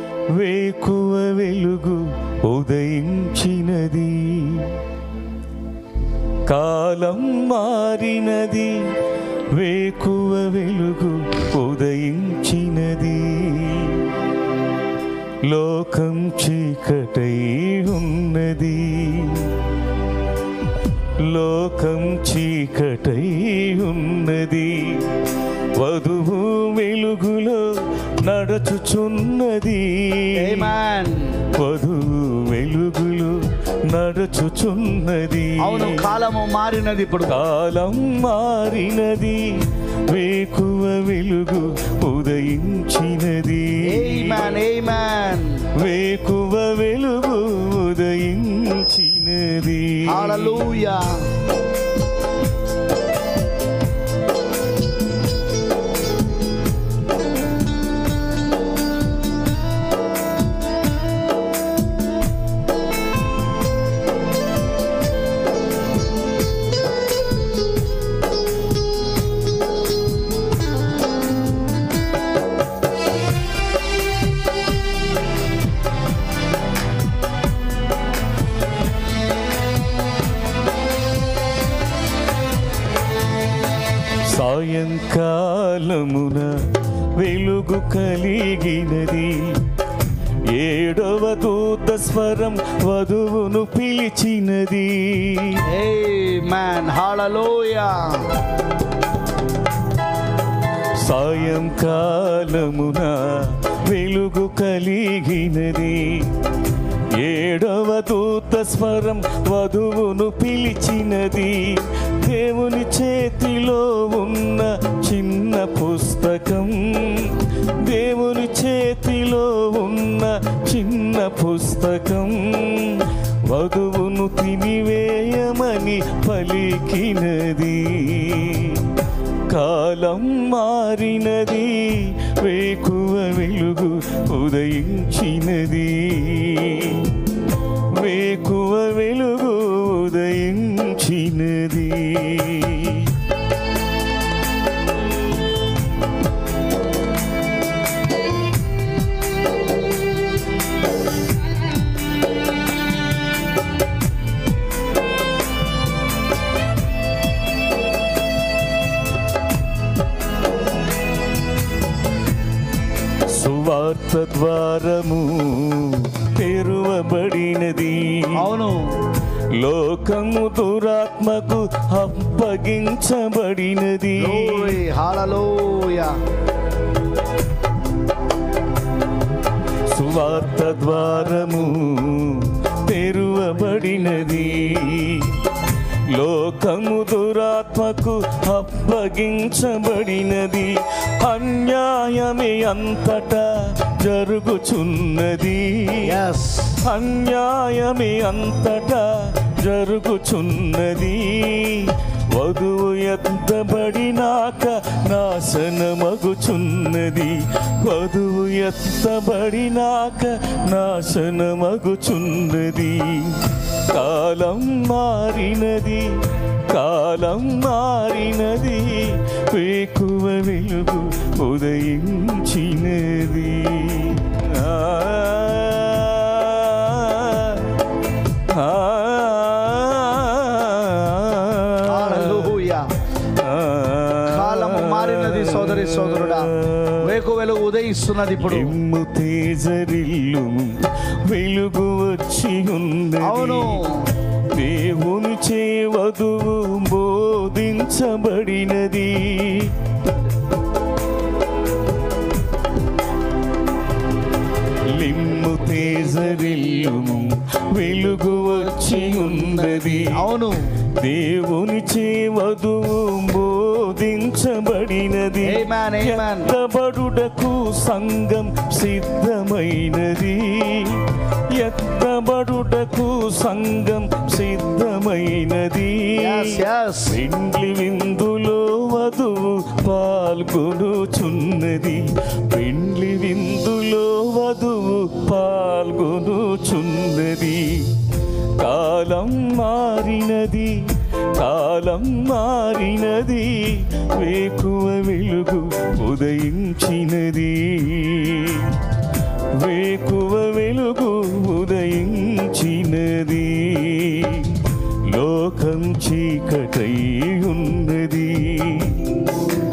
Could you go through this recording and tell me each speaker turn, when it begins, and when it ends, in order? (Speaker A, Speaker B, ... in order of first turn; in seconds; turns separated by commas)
Speaker A: 0.3-4.8, Speaker A: 6.5-8.9, Speaker A: 9.5-14.1, Speaker A: 15.4-19.6, Speaker A: 21.2-25.2, Speaker A: 25.8-30.8, Speaker B: 30.3-31.4, Speaker A: 31.5-36.0, Speaker B: 35.6-37.4, Speaker A: 37.3-44.6, Speaker B: 43.8-45.7, Speaker A: 45.8-50.7, Speaker B: 50.1-51.2, Speaker A: 84.2-89.7, Speaker A: 90.5-95.6, Speaker B: 95.7-98.4, Speaker A: 101.0-106.3, Speaker A: 107.1-137.2, Speaker A: 137.9-143.1, Speaker A: 163.3-168.5, Speaker B: 168.3-169.0, Speaker A: 169.5-174.8, Speaker B: 174.2-176.2, Speaker A: 179.9-185.4, Speaker A: 186.1-196.2, Speaker B: 196.0-196.8, Speaker A: 196.8-227.7, Speaker A: 228.4-232.6, Speaker B: 231.8-232.9, Speaker A: 233.2-237.2, Speaker B: 234.3-238.8, Speaker A: 238.4-243.8, Speaker B: 243.2-244.1, Speaker A: 244.4-249.8, Speaker A: 254.9-260.3, Speaker B: 259.4-260.8, Speaker A: 260.9-298.8, Speaker B: 265.4-266.5, Speaker B: 276.2-277.2, Speaker A: 299.5-309.2